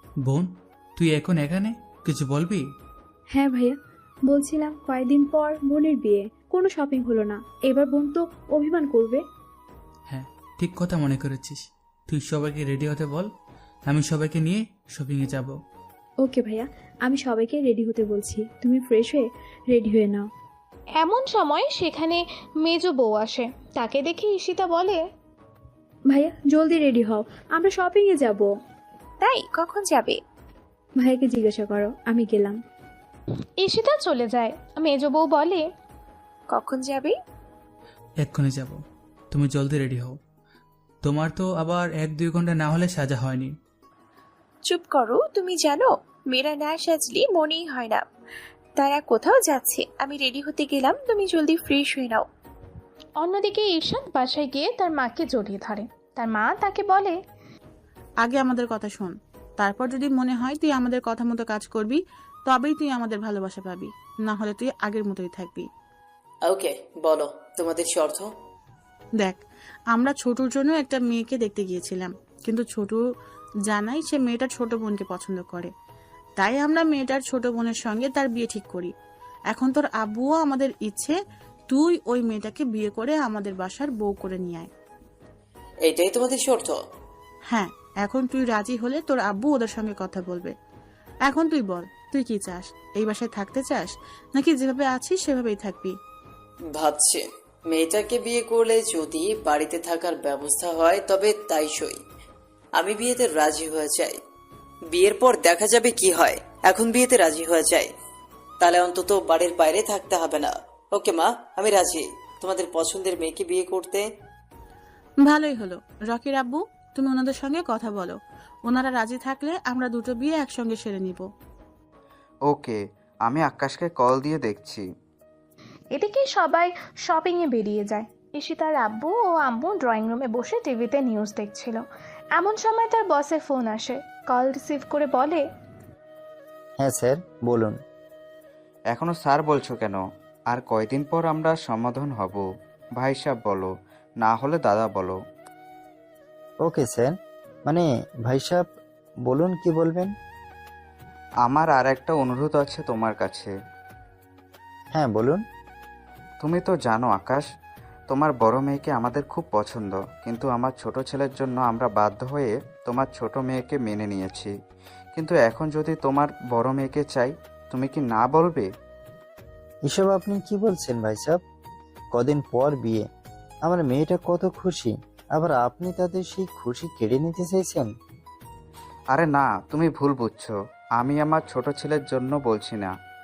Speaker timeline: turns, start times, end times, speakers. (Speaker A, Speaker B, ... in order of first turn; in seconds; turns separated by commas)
Speaker A: 1.0-2.6, Speaker B: 3.3-3.8, Speaker B: 4.3-9.2, Speaker A: 10.1-13.3, Speaker A: 13.9-15.6, Speaker B: 16.2-20.3, Speaker C: 21.0-25.0, Speaker B: 26.1-28.5, Speaker D: 29.2-30.2, Speaker B: 31.0-32.6, Speaker C: 33.6-35.7, Speaker D: 36.5-37.1, Speaker A: 38.2-38.8, Speaker A: 39.3-40.1, Speaker A: 41.0-43.5, Speaker D: 44.7-48.0, Speaker D: 48.8-52.3, Speaker C: 53.2-57.2, Speaker E: 58.2-65.6, Speaker F: 66.5-68.3, Speaker E: 69.9-73.0, Speaker E: 73.7-75.7, Speaker E: 76.4-78.9, Speaker E: 79.5-81.2, Speaker E: 81.7-84.7, Speaker F: 85.8-86.8, Speaker E: 87.5-90.5, Speaker E: 91.3-95.9, Speaker F: 96.7-102.0, Speaker F: 102.8-104.2, Speaker F: 104.9-107.9, Speaker F: 108.6-114.0, Speaker E: 115.3-118.2, Speaker E: 118.7-121.2, Speaker G: 122.5-124.9, Speaker C: 126.0-131.8, Speaker C: 132.4-135.4, Speaker H: 136.8-137.8, Speaker G: 138.9-145.2, Speaker H: 146.6-147.1, Speaker H: 147.7-148.7, Speaker H: 149.3-150.1, Speaker G: 151.4-153.5, Speaker H: 154.9-155.4, Speaker G: 156.4-157.4, Speaker G: 158.1-164.5, Speaker G: 165.2-168.7, Speaker H: 169.9-171.4, Speaker H: 172.1-173.1, Speaker H: 173.6-177.9, Speaker G: 179.1-182.9